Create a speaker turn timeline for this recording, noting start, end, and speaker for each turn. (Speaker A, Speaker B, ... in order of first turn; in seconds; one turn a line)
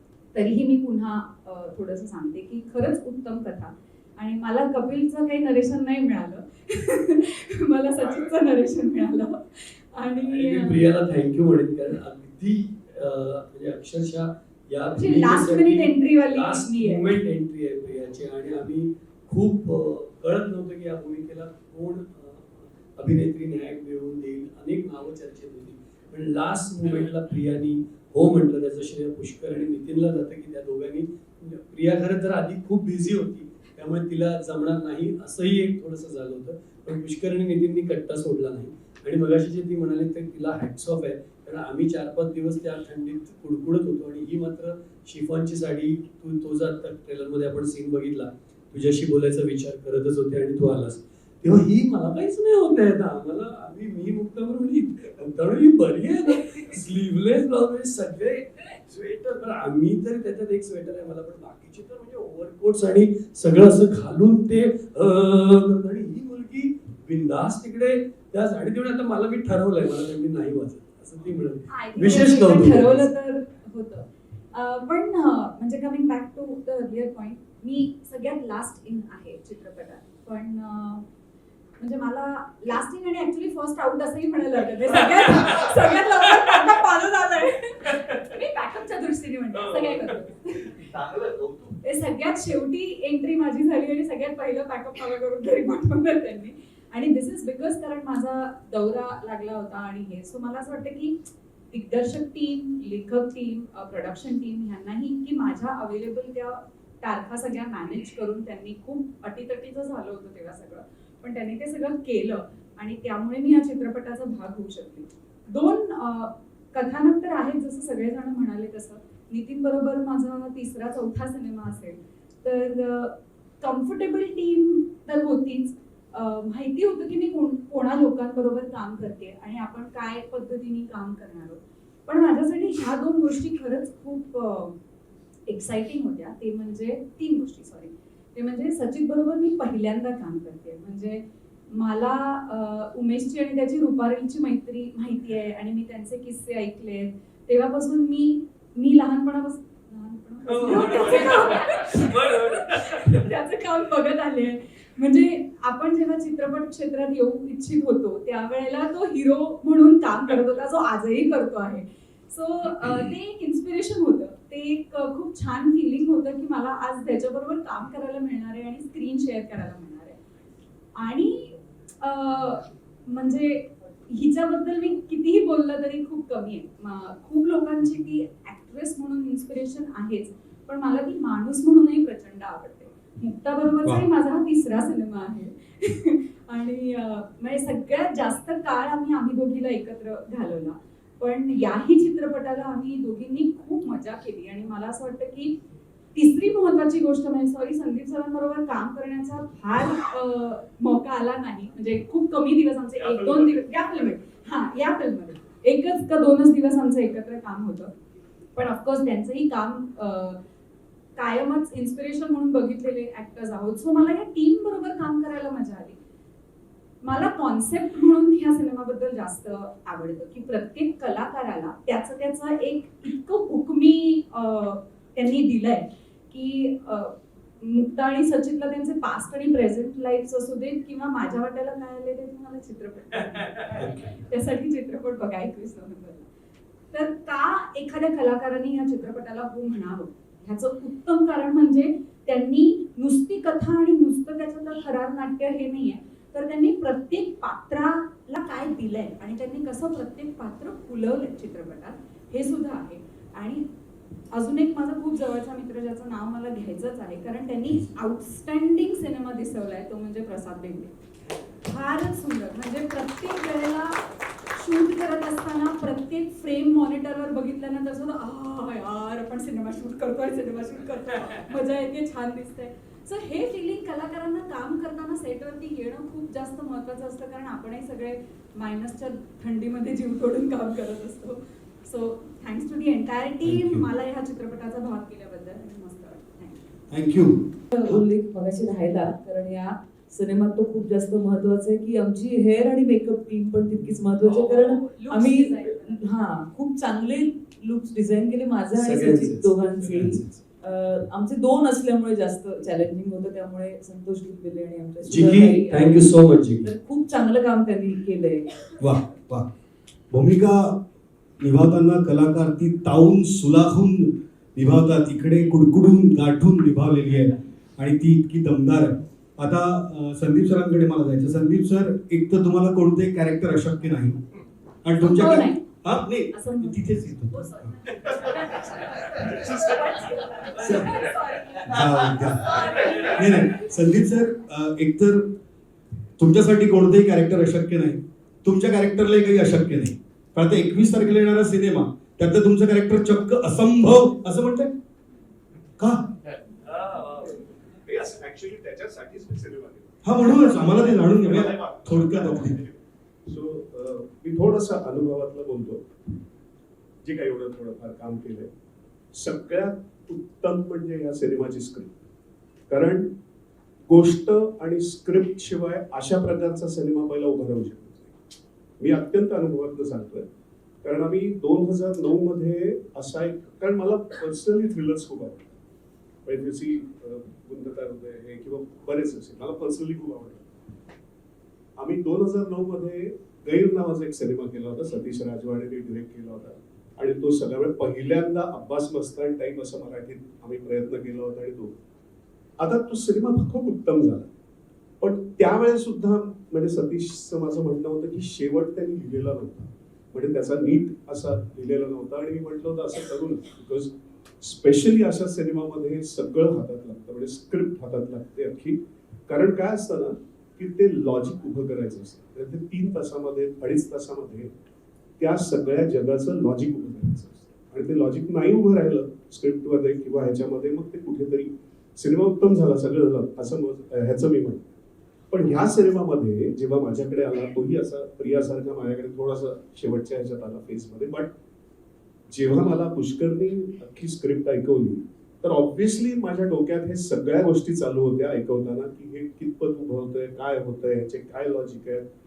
Speaker A: 0.3-10.8
Speaker B: 10.2-73.1
Speaker A: 15.0-17.2
Speaker A: 71.7-81.1
Speaker A: 81.8-90.8
Speaker A: 91.8-101.2
Speaker A: 101.7-134.8
Speaker A: 135.5-170.2
Speaker A: 171.0-195.6
Speaker A: 196.1-207.9
Speaker C: 203.2-203.4
Speaker A: 208.6-210.4
Speaker A: 211.2-216.0
Speaker A: 217.0-236.3
Speaker B: 233.8-234.0
Speaker A: 236.9-253.7
Speaker A: 254.3-260.9
Speaker A: 261.6-264.0
Speaker A: 264.5-286.6
Speaker D: 283.4-283.9
Speaker D: 286.9-287.9
Speaker E: 287.7-306.1
Speaker A: 294.2-296.0
Speaker B: 298.7-300.4
Speaker B: 305.0-306.7
Speaker E: 306.6-308.7
Speaker D: 308.8-309.4
Speaker D: 310.1-310.8
Speaker D: 311.4-324.2
Speaker D: 324.8-327.9
Speaker A: 325.0-325.6
Speaker A: 326.3-326.8
Speaker A: 327.3-331.8
Speaker D: 330.5-335.3
Speaker A: 332.5-333.2
Speaker D: 336.2-344.7
Speaker D: 345.8-346.1
Speaker C: 346.7-352.7
Speaker D: 350.0-352.6
Speaker C: 353.3-355.8
Speaker C: 357.0-358.5
Speaker C: 359.1-361.9
Speaker C: 362.7-363.1
Speaker C: 363.9-368.1
Speaker C: 368.8-370.3
Speaker C: 370.8-375.6
Speaker C: 376.3-380.5
Speaker C: 381.8-391.7
Speaker C: 392.6-394.3
Speaker C: 395.0-414.5
Speaker C: 415.2-424.7
Speaker C: 425.3-431.3
Speaker C: 432.3-442.0